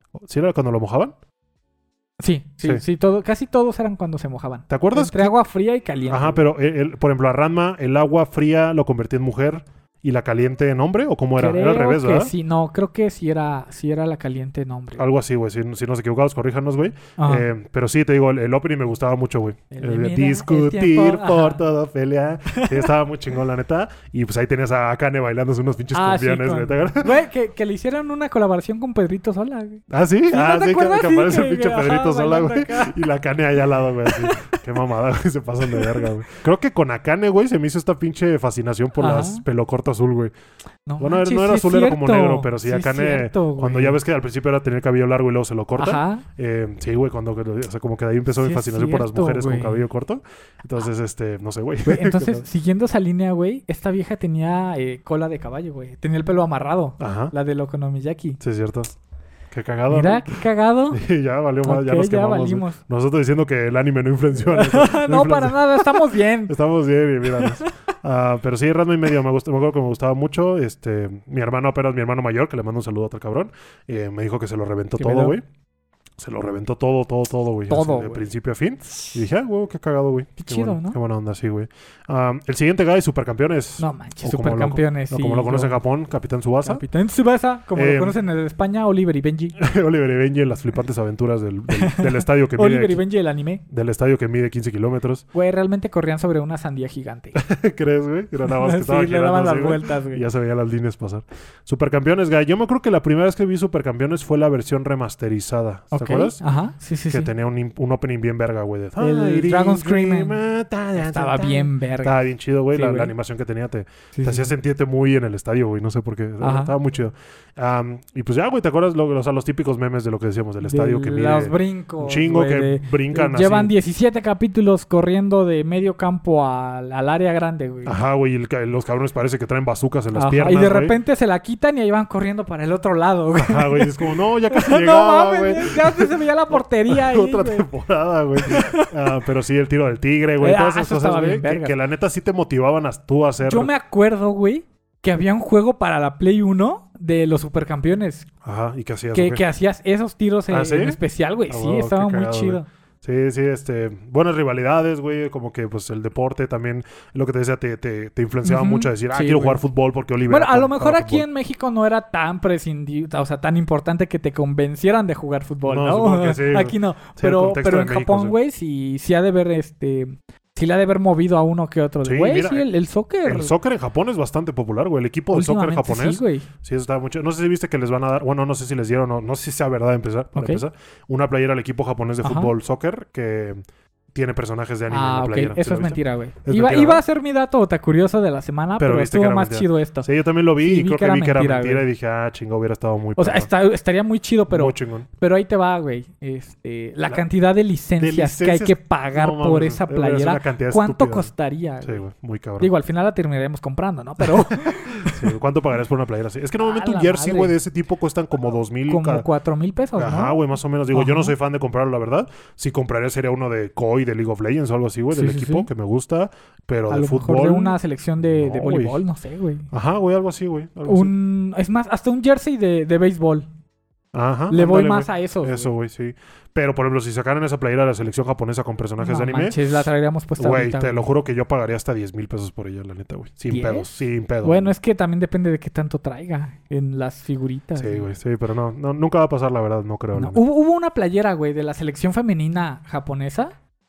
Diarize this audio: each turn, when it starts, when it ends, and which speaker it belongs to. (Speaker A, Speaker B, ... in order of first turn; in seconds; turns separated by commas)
Speaker A: 0.2-1.1, Speaker B: 2.2-6.4, Speaker A: 4.7-5.4, Speaker A: 6.1-12.3, Speaker B: 11.4-15.1, Speaker A: 14.9-27.2, Speaker B: 17.2-17.5, Speaker B: 19.7-21.6, Speaker B: 22.5-22.9, Speaker B: 25.9-33.0, Speaker A: 29.9-40.3, Speaker B: 34.0-34.6, Speaker B: 35.6-36.1, Speaker B: 39.0-39.4, Speaker B: 40.9-44.0, Speaker A: 41.0-52.4, Speaker B: 45.8-46.2, Speaker B: 48.3-49.9, Speaker B: 51.9-58.4, Speaker A: 57.0-57.3, Speaker A: 58.4-58.9, Speaker A: 59.5-60.4, Speaker B: 59.9-61.0, Speaker A: 60.9-75.4, Speaker B: 61.6-62.8, Speaker B: 64.5-66.5, Speaker B: 67.3-67.7, Speaker B: 75.0-75.4, Speaker A: 76.2-86.8, Speaker B: 77.7-78.2, Speaker B: 80.4-81.0, Speaker B: 83.8-85.8, Speaker B: 86.6-89.5, Speaker A: 87.8-88.2, Speaker A: 89.5-93.0, Speaker B: 91.8-93.6, Speaker A: 93.7-95.2, Speaker B: 95.3-97.3, Speaker A: 97.3-106.4, Speaker B: 98.5-100.2, Speaker B: 105.9-107.3, Speaker A: 107.1-123.7, Speaker B: 109.0-110.4, Speaker B: 111.0-112.2, Speaker B: 112.7-113.1, Speaker B: 114.1-114.5, Speaker B: 116.4-116.7, Speaker B: 120.6-128.0, Speaker A: 127.8-130.9, Speaker B: 130.1-137.7, Speaker A: 133.4-143.7, Speaker B: 138.4-139.2, Speaker B: 140.4-141.8, Speaker B: 143.4-148.3, Speaker A: 148.4-149.4, Speaker B: 149.1-152.7, Speaker A: 150.5-161.2, Speaker B: 158.4-159.6, Speaker B: 160.3-173.5, Speaker A: 165.7-168.4, Speaker A: 172.0-172.7, Speaker A: 173.2-183.6, Speaker B: 175.3-176.5, Speaker B: 180.4-180.6, Speaker B: 182.2-182.5, Speaker A: 184.1-187.0, Speaker B: 184.9-190.1, Speaker A: 188.8-193.5, Speaker B: 190.6-191.9, Speaker B: 193.2-202.0, Speaker A: 194.5-195.1, Speaker A: 198.0-201.3, Speaker A: 201.8-202.7, Speaker B: 202.6-205.3, Speaker A: 205.0-209.2, Speaker B: 206.6-207.6, Speaker B: 208.9-210.4, Speaker A: 209.9-219.0, Speaker B: 210.9-211.3, Speaker B: 215.1-215.7, Speaker B: 216.9-219.7, Speaker A: 219.7-221.1, Speaker B: 220.9-223.5, Speaker A: 224.1-229.7, Speaker B: 224.5-225.7, Speaker B: 229.0-231.1, Speaker A: 230.4-234.7, Speaker B: 233.5-233.9, Speaker B: 234.4-238.1, Speaker A: 237.8-240.4, Speaker B: 240.1-243.5